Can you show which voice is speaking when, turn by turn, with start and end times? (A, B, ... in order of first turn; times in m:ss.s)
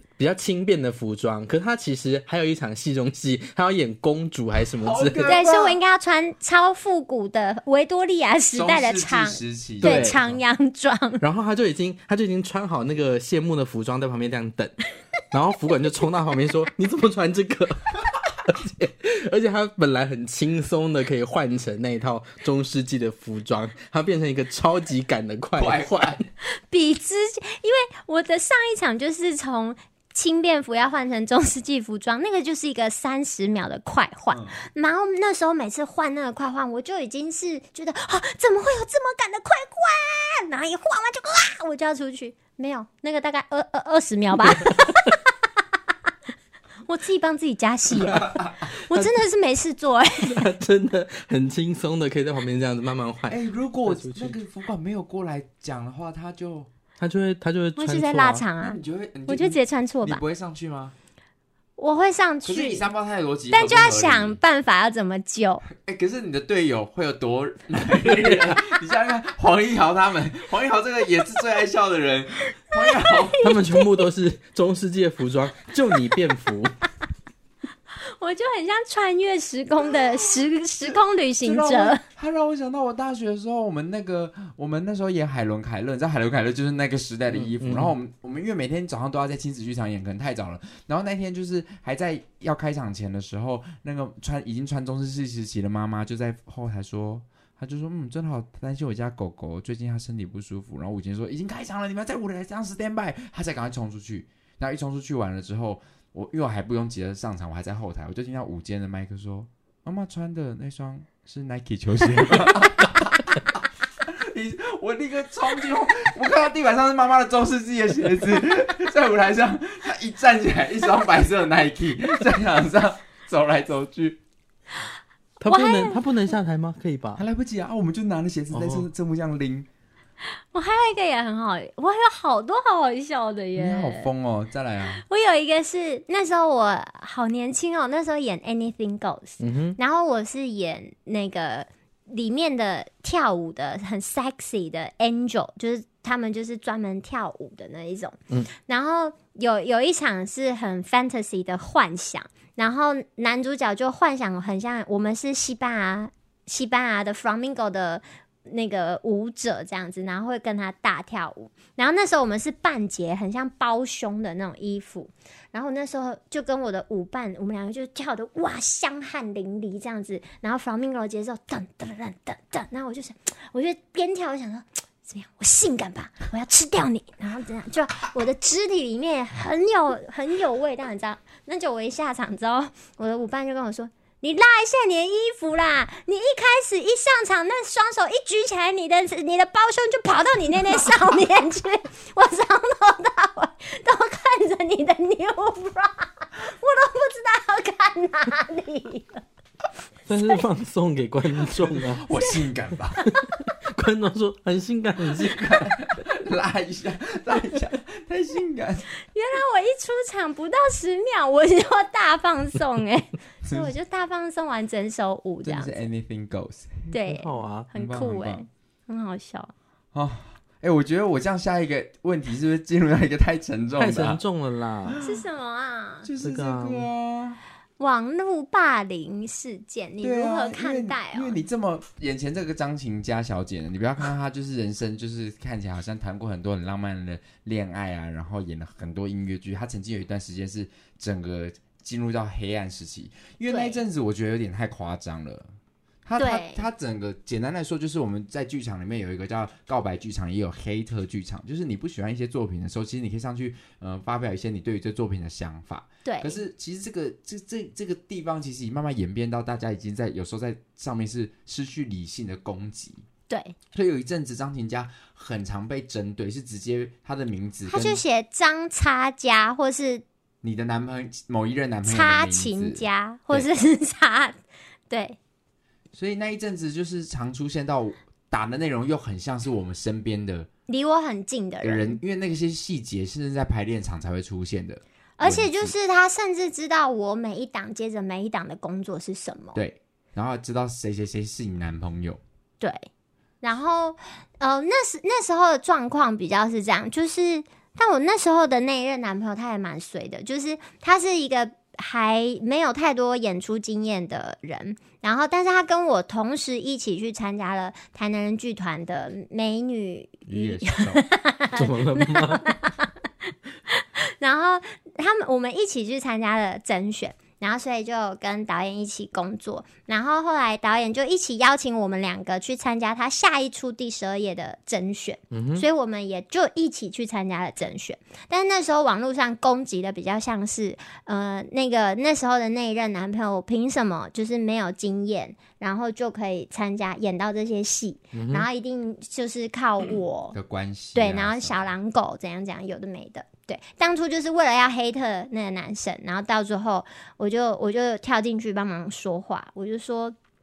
0:00.2-0:05.4 A
0:04.8-0:05.8 B
0:05.2-0:11.2 C
0:08.5-0:10.4 B
0:09.8-0:10.2 A
0:11.2-0:14.8 A
0:15.3-0:26.3 A
0:25.6-0:26.2 B
0:26.6-0:45.0 C
0:34.3-0:34.6 B
0:46.8-0:50.4 C
0:48.1-0:48.5 B
0:50.2-0:54.4 A
0:53.3-0:56.7 B
0:57.0-0:58.4 A
0:57.8-1:00.2 C
0:58.6-1:00.9 B
1:01.8-1:02.9 C
1:02.4-1:04.4 B
1:03.5-1:05.6 C
1:05.7-1:13.5 B
1:08.0-1:08.6 A
1:12.9-1:13.8 C
1:13.4-1:16.8 A
1:18.1-1:22.0 C
1:20.9-2:04.2 B
1:27.3-1:27.9 A
2:05.4-2:07.2 A
2:05.5-2:06.0 C
2:07.2-2:09.7 B
2:08.5-2:08.9 A
2:10.4-2:14.1 C
2:13.5-2:15.0 B
2:14.9-3:19.2 C
2:19.4-2:19.8 A
3:20.1-3:22.1 A
3:21.7-3:23.0 B
3:23.2-3:25.7 A
3:25.1-3:28.9 B
3:29.0-3:35.8 C
3:33.4-3:33.7 B
3:35.4-3:36.9 B
3:36.9-3:39.5 C
3:37.1-3:37.7 A
3:37.7-3:38.4 B
3:39.9-3:44.2 B
3:43.8-3:45.0 A
3:44.9-3:45.2 B
3:45.0-3:46.1 C
3:46.0-3:47.4 B
3:46.2-3:46.9 A
3:47.8-3:51.4 C
3:50.0-4:05.5 B
4:03.5-4:03.8 C
4:06.0-4:23.0 B
4:06.2-4:06.6 C
4:16.0-4:16.4 C
4:23.3-4:23.5 C
4:23.7-4:28.0 B
4:27.7-4:30.0 C
4:30.4-4:33.5 B
4:31.8-4:35.2 C
4:35.9-4:40.5 B
4:40.7-4:42.0 C
4:41.6-4:45.7 B
4:45.2-4:49.6 C
4:49.5-4:52.2 B
4:52.6-4:52.9 C
4:53.4-5:12.9 C
5:10.2-5:11.0 B
5:11.5-5:12.6 A
5:13.7-5:40.4 C
5:25.3-5:25.6 A
5:38.1-5:38.5 A
5:40.3-5:41.7 B
5:40.9-5:50.2 C